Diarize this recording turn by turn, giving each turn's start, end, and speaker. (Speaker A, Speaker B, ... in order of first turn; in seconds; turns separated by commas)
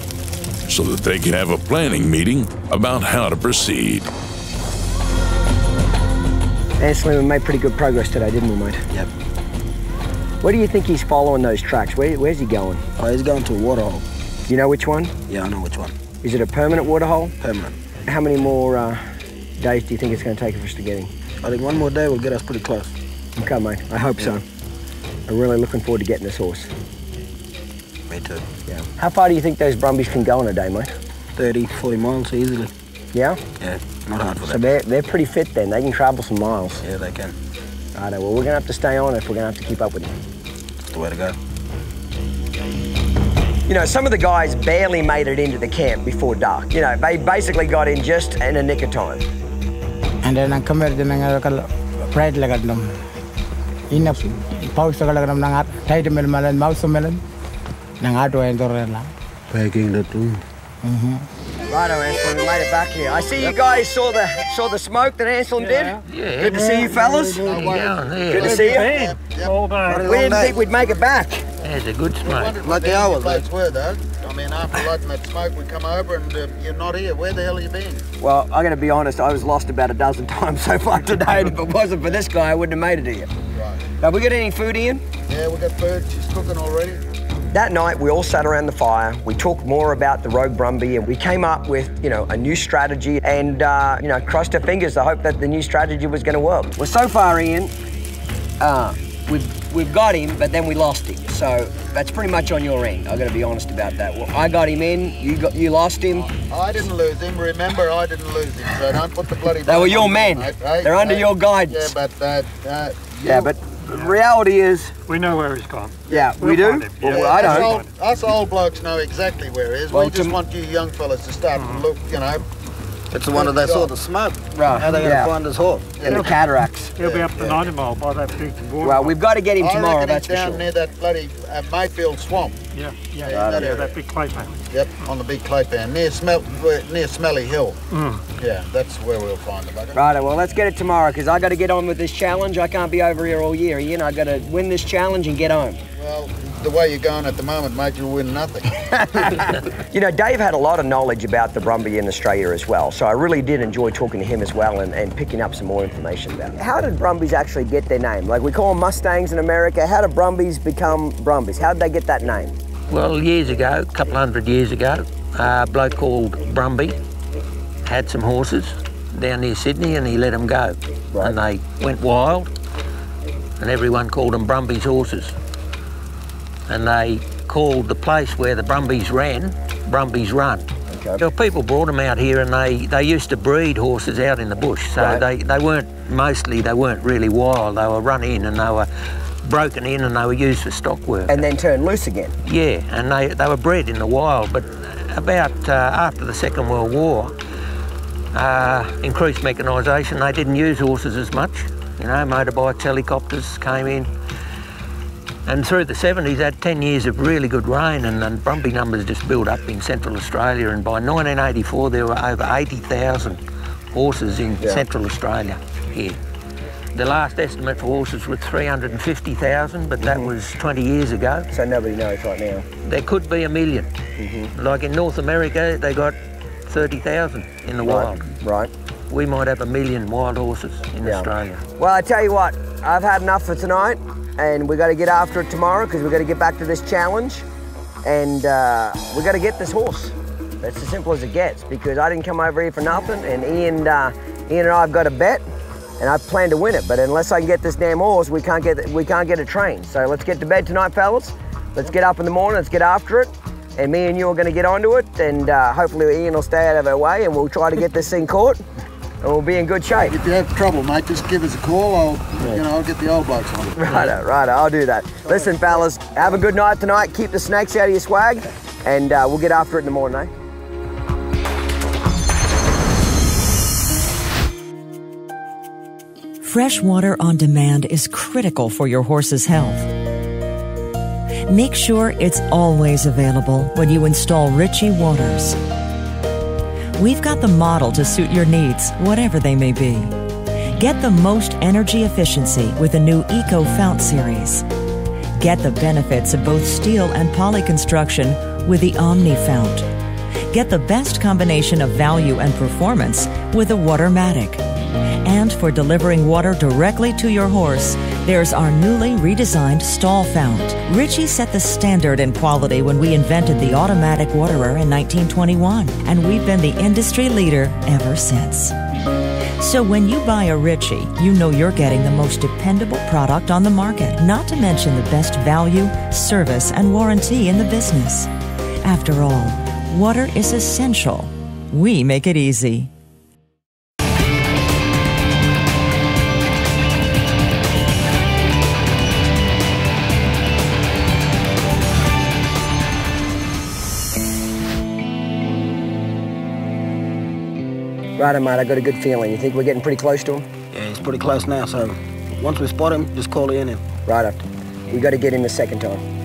Speaker A: 0.7-4.1, Speaker B: 6.8-8.9, Speaker B: 10.4-12.8, Speaker C: 13.0-14.1, Speaker B: 14.5-15.1, Speaker C: 15.3-15.9, Speaker B: 16.2-17.4, Speaker C: 17.4-17.8, Speaker B: 18.1-19.0, Speaker B: 19.6-21.1, Speaker C: 21.4-22.9, Speaker B: 23.4-24.4, Speaker B: 25.3-26.7, Speaker C: 28.1-28.4, Speaker B: 28.7-30.9, Speaker C: 31.4-32.7, Speaker B: 33.1-33.4, Speaker C: 33.6-34.6, Speaker B: 34.5-36.8, Speaker C: 36.8-37.4, Speaker B: 38.0-40.2, Speaker C: 40.9-41.4, Speaker B: 43.7-49.2, Speaker D: 50.2-53.0, Speaker D: 53.9-57.2, Speaker D: 58.0-59.1, Speaker C: 59.5-60.4, Speaker D: 60.8-61.2, Speaker B: 61.7-67.7, Speaker E: 65.6-66.0, Speaker F: 66.1-66.7, Speaker G: 66.4-70.8, Speaker E: 66.5-66.9, Speaker E: 67.5-67.8, Speaker F: 67.5-68.6, Speaker B: 68.3-69.0, Speaker E: 68.4-70.2, Speaker C: 69.9-70.6, Speaker B: 70.0-71.5, Speaker F: 71.6-72.6, Speaker G: 72.2-78.0, Speaker C: 72.6-73.5, Speaker B: 78.2-83.3, Speaker G: 83.5-83.9, Speaker B: 84.0-85.0, Speaker G: 85.3-87.0, Speaker B: 87.5-97.7, Speaker B: 98.6-106.3, Speaker G: 106.3-113.5, Speaker B: 109.7-111.9, Speaker B: 113.2-114.9, Speaker E: 115.1-117.9, Speaker B: 116.1-117.7, Speaker G: 117.0-122.5, Speaker B: 119.9-120.4, Speaker E: 121.5-121.9, Speaker C: 123.1-126.0, Speaker G: 123.3-123.9, Speaker B: 124.5-125.3, Speaker G: 126.0-126.4, Speaker B: 126.0-127.0, Speaker E: 126.0-126.4, Speaker E: 127.0-129.2, Speaker G: 127.0-127.6, Speaker B: 128.8-130.7, Speaker G: 129.6-132.6, Speaker E: 132.7-134.6, Speaker G: 133.2-133.9, Speaker B: 133.3-133.8, Speaker G: 134.7-137.8, Speaker E: 137.9-138.2, Speaker G: 138.4-140.0, Speaker B: 139.9-145.8, Speaker G: 146.0-149.6, Speaker B: 149.9-162.6, Speaker F: 162.9-167.0, Speaker F: 167.8-172.5, Speaker F: 173.6-175.4, Speaker F: 176.7-180.7, Speaker B: 180.9-181.2, Speaker F: 181.2-188.9, Speaker B: 185.0-185.2, Speaker F: 189.4-191.4, Speaker B: 191.3-192.3, Speaker F: 192.4-197.4, Speaker F: 198.3-204.1, Speaker F: 205.5-213.4, Speaker F: 213.9-216.2, Speaker F: 216.9-221.5, Speaker B: 220.0-220.3, Speaker B: 221.5-222.7, Speaker F: 222.8-223.9, Speaker B: 224.2-224.5, Speaker F: 224.5-228.3, Speaker B: 227.8-228.7, Speaker F: 229.1-231.6, Speaker B: 231.0-237.4, Speaker B: 238.1-245.4, Speaker B: 246.0-258.6, Speaker B: 259.2-260.2, Speaker G: 260.0-264.1, Speaker B: 263.8-270.3, Speaker G: 265.3-265.6, Speaker H: 276.4-279.9, Speaker H: 281.5-285.6, Speaker H: 287.0-290.1, Speaker H: 290.8-294.6, Speaker H: 295.4-299.9, Speaker H: 300.5-304.6, Speaker H: 305.2-318.7, Speaker H: 319.6-328.3, Speaker H: 328.8-332.9, Speaker B: 348.2-350.5, Speaker C: 350.7-353.8, Speaker B: 354.1-356.0